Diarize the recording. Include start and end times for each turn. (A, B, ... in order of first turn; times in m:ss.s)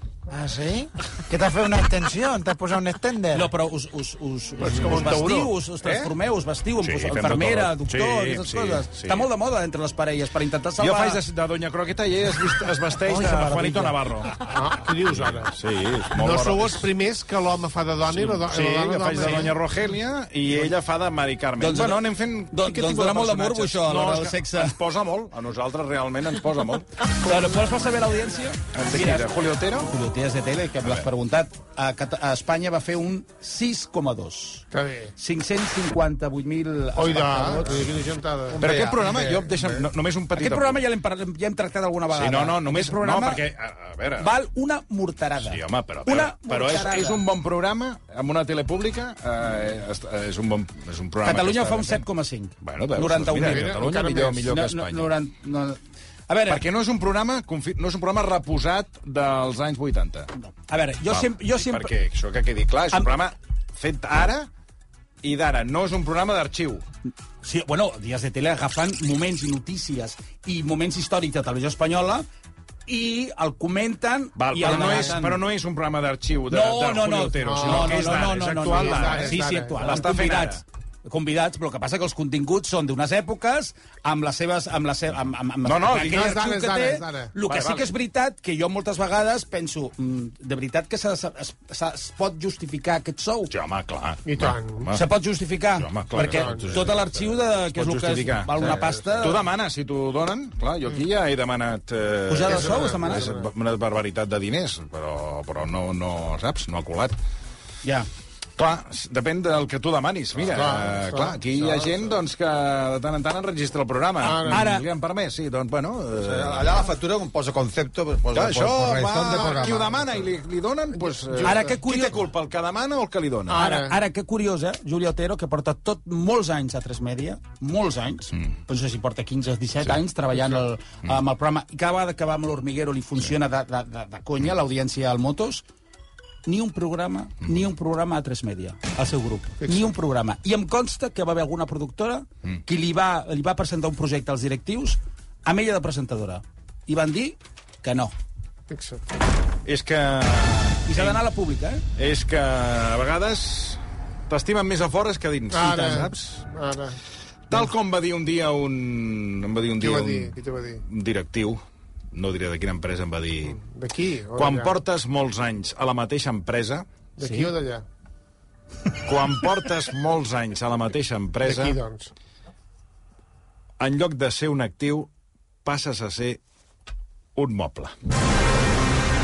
0:00.3-0:03.5 A
0:03.3-0:11.2 B
0:04.6-0:05.5 C
0:05.8-0:06.1 D
0:06.8-0:09.2 D
0:10.8-0:14.4 D
0:13.1-0:13.9 A
0:14.4-0:15.5 C
0:15.0-0:16.9 D
0:16.1-0:19.5 C
0:18.1-0:27.5 D
0:21.6-0:24.7 B
0:27.2-0:29.3 B
0:28.7-0:29.9 D
0:29.8-0:37.9 B
0:30.8-0:31.1 D
0:34.7-0:35.1 C
0:37.0-0:38.6 C
0:38.5-0:39.8 E
0:38.6-0:40.8 D
0:40.4-0:43.4 B
0:42.1-0:44.3 D
0:44.2-0:47.2 B
0:45.4-0:52.0 D
0:51.2-0:56.6 B
0:52.6-0:55.1 D
0:53.4-0:54.4 C
0:56.5-1:00.3 D
1:00.4-1:01.9 B
1:01.1-1:04.5 D
1:05.2-1:06.8 D
1:07.4-1:12.2 B
1:12.9-1:15.4 B
1:14.4-1:20.6 D
1:16.5-1:33.5 B
1:17.4-1:20.0 C
1:25.6-1:26.4 D
1:26.0-1:27.3 C
1:27.4-1:27.9 D
1:33.5-1:35.0 D
1:34.2-1:34.9 C
1:34.9-1:39.4 B
1:35.8-1:37.1 D
1:36.2-1:36.8 C
1:37.7-1:47.2 D
1:38.5-1:39.4 E
1:42.3-1:43.3 B
1:42.5-1:43.5 C
1:48.6-1:56.9 D
1:50.5-1:51.3 C
1:51.5-1:52.1 E
1:54.2-1:54.7 C
1:54.4-1:54.8 B
1:56.2-2:00.2 E
1:58.3-2:03.6 D
1:59.5-1:59.8 C
2:01.0-2:01.7 C
2:01.4-2:02.2 B
2:03.5-2:04.0 C
2:03.5-2:15.6 B
2:16.4-2:28.1 B
2:19.6-2:19.9 C
2:28.7-2:29.0 C
2:29.6-2:31.2 D
2:30.8-2:31.8 B
2:32.0-2:36.4 D
2:35.5-2:37.0 C
2:37.5-2:41.6 D
2:39.8-2:40.8 C
2:42.1-2:43.6 D
2:43.5-2:44.7 C
2:44.3-2:46.8 D
2:47.2-2:47.8 C
2:47.2-2:47.5 B
2:49.0-2:51.8 D
2:51.4-2:52.1 C
2:53.8-2:55.1 D
2:55.6-2:56.4 D
2:57.4-2:57.9 D